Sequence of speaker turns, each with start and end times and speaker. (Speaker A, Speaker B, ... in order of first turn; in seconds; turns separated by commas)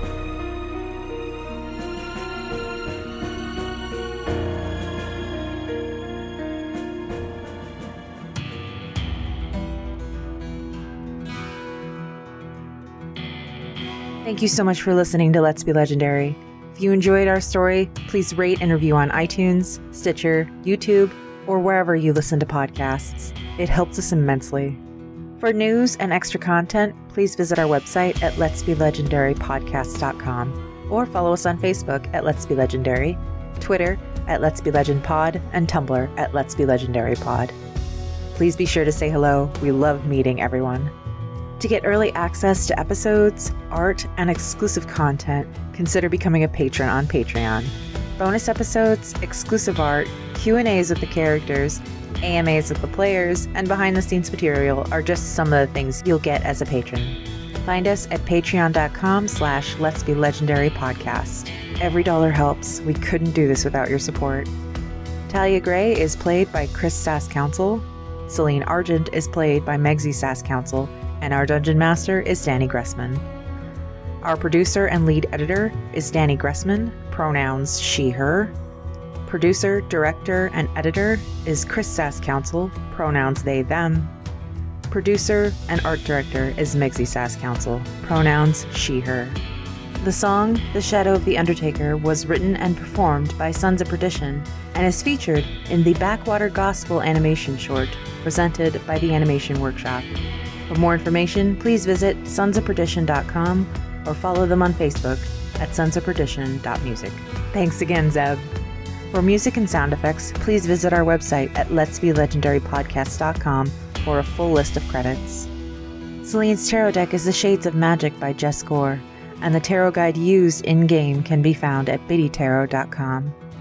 Speaker A: 14.2-24.8, Speaker A: 25.4-37.5, Speaker A: 38.3-40.9, Speaker A: 41.6-64.5, Speaker A: 65.3-73.2, Speaker A: 74.2-78.5, Speaker A: 79.2-84.1, Speaker A: 84.9-89.4, Speaker A: 90.0-100.1, Speaker A: 100.7-108.5, Speaker A: 109.1-115.5, Speaker A: 116.2-123.4